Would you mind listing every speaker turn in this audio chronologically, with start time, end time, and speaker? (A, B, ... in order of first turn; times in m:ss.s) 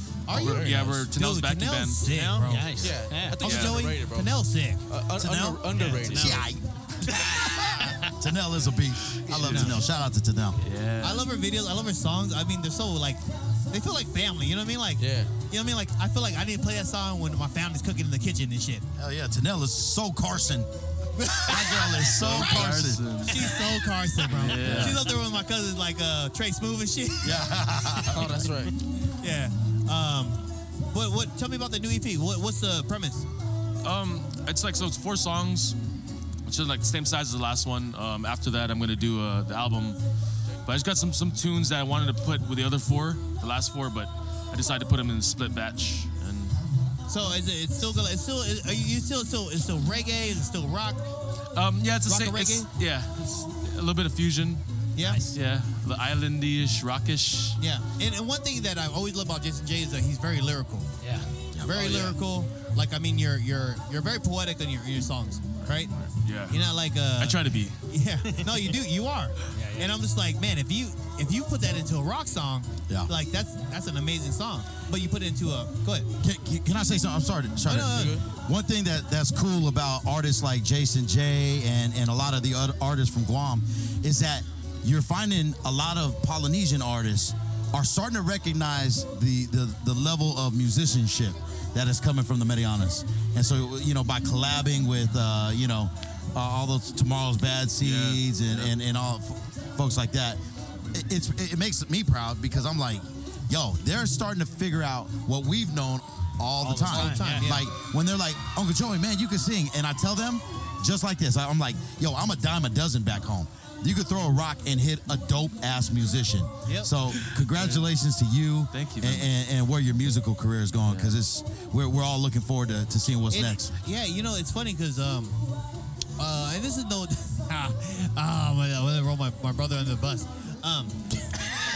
0:00.3-0:06.3 A
0:00.3-0:02.1 B
0:00.3-0:00.9 C
0:02.0-0:03.4 D
0:02.8-0:06.5 C
0:03.4-0:03.9 B
0:05.7-0:06.4 D
0:06.1-0:10.6 E
0:07.1-0:07.6 A
0:07.3-0:07.8 D
0:09.3-0:09.7 C
0:09.4-0:09.8 A
0:10.6-0:11.3 B
0:11.0-0:18.8 A
0:15.0-0:15.3 C
0:19.0-0:20.7 E
0:21.2-0:22.7 A
0:21.3-0:23.1 E
0:22.1-0:23.7 B
0:23.2-0:28.5 A
0:24.2-0:25.1 B
0:24.6-0:25.0 E
0:27.2-0:28.5 E
0:28.1-0:28.7 C
0:29.1-0:30.4 A
0:30.9-0:33.2 A
0:33.8-0:35.8 B
0:36.4-0:40.0 B
0:40.6-0:46.6 B
0:47.1-0:51.0 A
0:51.5-0:54.6 B
0:52.0-0:52.7 A
0:55.0-0:55.2 A
0:55.0-0:55.4 D
0:55.3-0:57.6 B
0:57.6-1:00.9 A
1:01.0-1:01.3 D
1:01.5-1:01.9 E
1:01.6-1:05.9 A
1:01.7-1:02.2 C
1:05.6-1:07.8 B
1:06.5-1:16.1 A
1:08.3-1:08.6 D
1:09.5-1:09.9 D
1:16.2-2:03.7 E
1:17.6-1:18.2 A
1:17.8-1:18.2 C
1:37.8-1:38.7 B
1:46.6-1:47.6 D
1:46.8-1:47.6 A
1:56.7-1:57.0 A
1:57.5-1:57.8 B
1:58.7-1:59.3 B
2:00.8-2:01.2 B
2:03.3-2:05.4 A
2:06.2-2:11.0 A